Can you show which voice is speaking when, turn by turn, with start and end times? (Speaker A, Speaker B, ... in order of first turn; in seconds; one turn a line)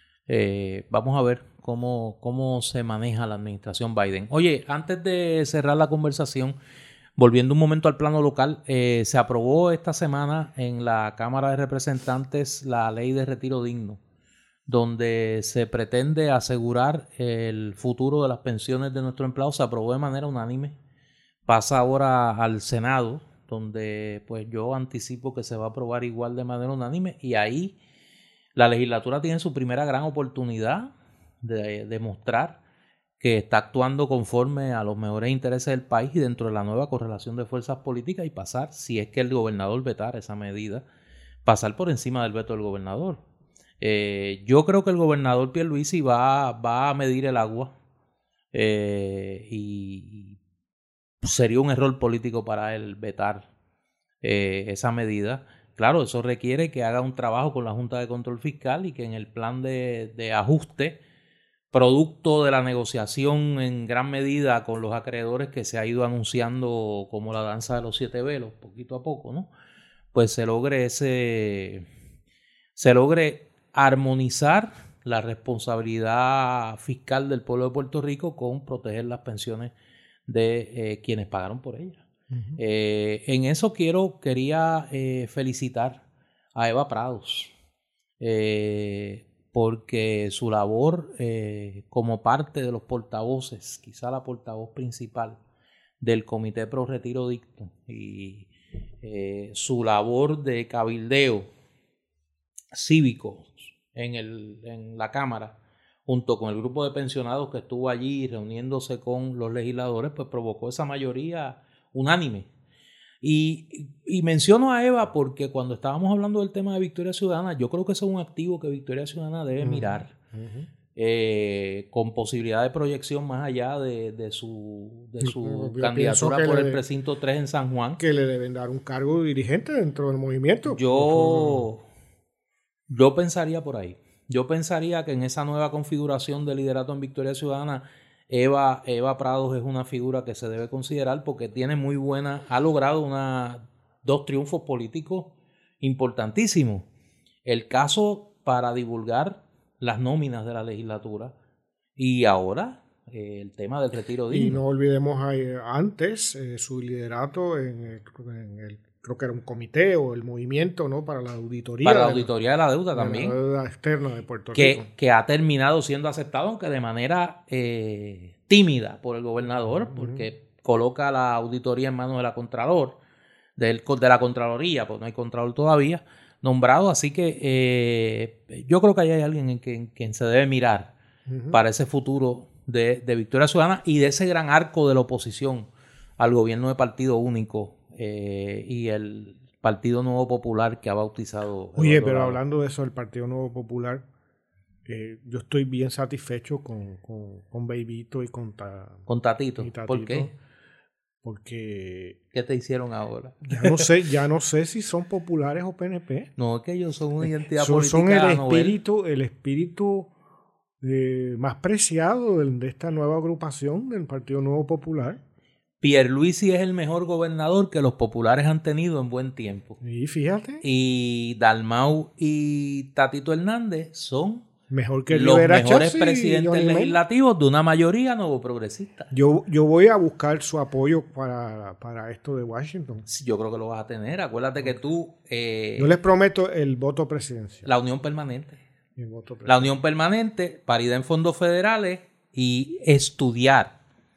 Speaker A: 0.3-6.6
Speaker A: 7.2-14.0
Speaker A: 14.7-20.8
Speaker A: 21.5-27.8
Speaker A: 28.6-30.9
Speaker A: 31.4-32.6
Speaker A: 33.2-40.9
Speaker A: 41.5-43.2
Speaker A: 43.8-47.7
Speaker A: 48.5-50.4
Speaker A: 51.2-53.5
Speaker A: 54.2-61.0
Speaker A: 61.7-69.5
Speaker A: 70.1-71.9
Speaker A: 72.8-79.7
Speaker A: 80.3-82.1
Speaker B: 82.3-82.6
Speaker A: 82.6-86.0
Speaker A: 86.5-87.5
Speaker A: 88.2-95.4
Speaker A: 96.0-98.5
Speaker A: 99.0-101.5
Speaker A: 102.7-112.5
Speaker A: 113.2-120.2
Speaker B: 119.6-120.7
Speaker A: 120.9-128.0
Speaker B: 125.2-126.8
Speaker B: 128.0-131.7
Speaker A: 130.7-131.8
Speaker A: 132.9-146.9
Speaker A: 147.4-151.3
Speaker A: 152.0-154.6
Speaker B: 154.3-162.3
Speaker A: 161.8-163.4
Speaker B: 162.9-164.9
Speaker A: 164.5-173.0
Speaker B: 169.9-170.3
Speaker A: 173.6-180.9
Speaker B: 181.3-181.6
Speaker A: 181.5-192.4
Speaker B: 191.8-194.0
Speaker B: 194.9-199.1
Speaker A: 199.1-200.3
Speaker B: 199.6-200.3
Speaker B: 201.2-202.2
Speaker A: 202.3-203.8
Speaker B: 203.4-206.3
Speaker A: 206.4-208.8
Speaker B: 207.2-210.1
Speaker B: 210.8-215.2
Speaker A: 215.8-219.8
Speaker B: 219.8-220.6
Speaker A: 220.6-224.5
Speaker B: 224.7-227.0
Speaker A: 225.1-229.1
Speaker B: 229.1-233.1
Speaker A: 233.1-236.0
Speaker B: 235.8-237.7
Speaker A: 237.7-238.6
Speaker B: 239.0-239.7
Speaker A: 239.5-243.8